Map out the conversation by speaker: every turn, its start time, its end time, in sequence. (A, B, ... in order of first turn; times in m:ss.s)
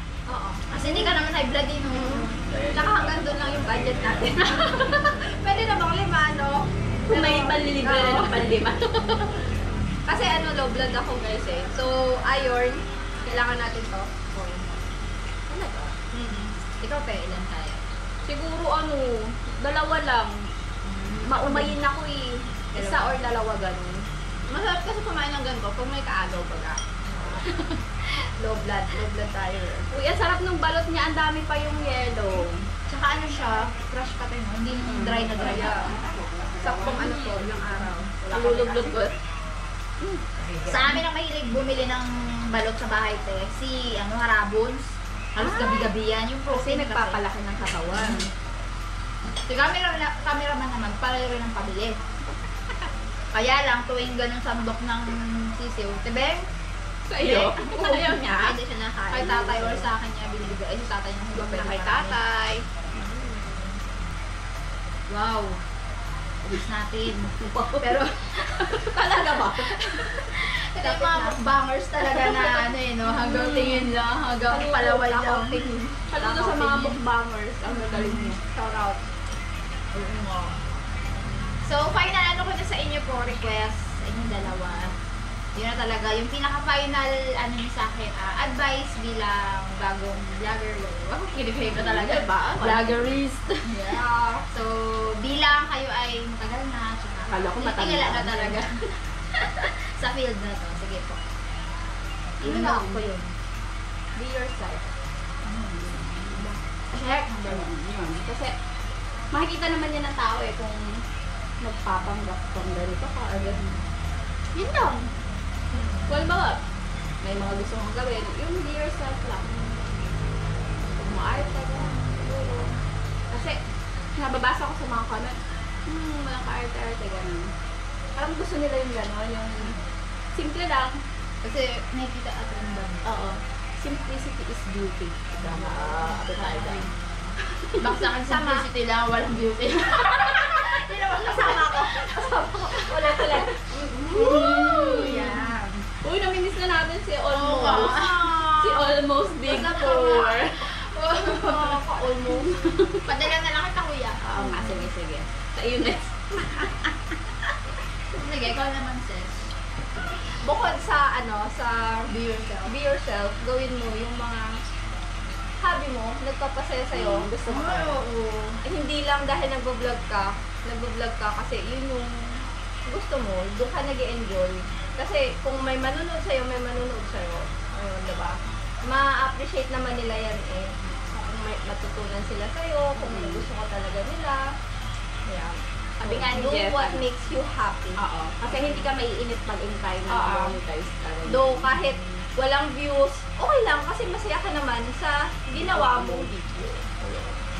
0:00.3-0:00.6 A
0:00.7-0:02.3 B
0:02.0-0:08.4 A
0:07.1-0:09.2 C
0:10.1-0:14.1 A
0:15.5-0:15.9 C
0:16.1-0:16.5 A
0:16.8-0:18.0 B
0:18.3-0:19.2 A
0:19.1-0:20.4 C
0:20.8-0:21.7 B
0:21.2-0:24.0 C
0:22.7-0:23.3 B
0:24.5-0:26.8 A
0:27.1-0:27.6 B
0:28.4-0:29.9 A
0:29.9-0:32.6 C
0:32.9-0:36.0 B
0:34.7-0:35.4 C
0:35.2-0:36.0 A
0:36.6-0:39.0 A
0:36.8-0:37.4 C
0:38.3-0:39.1 C
0:40.0-0:41.0 C
0:40.7-0:47.2 B
0:45.4-0:45.9 C
0:46.5-0:48.3 C
0:49.5-0:52.0 B
0:53.3-0:56.4 B
0:57.1-0:59.8 C
0:57.2-1:02.2 B
1:01.3-1:02.2 C
1:01.7-1:02.6 A
1:02.9-1:03.7 B
1:05.1-1:05.6 B
1:06.4-1:08.1 B
1:07.4-1:07.9 C
1:08.6-1:10.1 C
1:10.3-1:15.7 B
1:10.8-1:11.4 A
1:13.0-1:13.9 C
1:14.5-1:15.1 C
1:14.6-1:16.0 A
1:16.1-1:18.4 C
1:16.2-1:16.9 B
1:16.5-1:16.8 A
1:17.7-1:18.3 B
1:18.4-1:19.0 A
1:19.9-1:20.6 B
1:21.6-1:24.9 B
1:25.5-1:41.2 B
1:31.3-1:33.0 C
1:33.9-1:34.4 A
1:37.3-1:38.6 C
1:42.4-1:43.1 C
1:42.4-1:43.3 B
1:44.2-1:44.9 C
1:45.4-1:46.2 B
1:45.9-1:48.5 C
1:46.9-1:47.7 B
1:49.3-1:51.0 C
1:51.6-1:53.8 C
1:54.5-1:55.1 C
1:55.7-1:56.0 B
1:56.1-1:56.6 C
1:57.2-1:59.9 C
2:01.0-2:02.8 C
2:03.3-2:03.6 C
2:04.2-2:07.5 C
2:08.2-2:09.8 C
2:10.3-2:11.0 C
2:11.4-2:13.2 B
2:13.0-2:16.9 C
2:15.4-2:16.9 B
2:17.7-2:18.6 C
2:17.8-2:23.4 B
2:21.2-2:25.5 C
2:24.0-2:25.8 B
2:26.0-2:30.7 C
2:27.3-2:28.9 B
2:29.4-2:31.8 B
2:31.2-2:32.5 A
2:32.3-2:33.1 C
2:33.0-2:34.9 B
2:34.2-2:36.9 C
2:38.1-2:39.5 B
2:40.4-2:42.1 A
2:42.1-2:42.7 B
2:42.6-2:44.6 A
2:45.6-2:47.8 A
2:46.9-2:48.0 C
2:47.4-2:48.6 B
2:48.6-3:04.5 A
3:03.0-3:03.4 C
3:05.3-3:08.9 A
3:06.0-3:07.0 C
3:08.0-3:11.8 C
3:10.1-3:10.6 A
3:11.2-3:16.4 A
3:15.5-3:17.2 C
3:17.0-3:17.3 A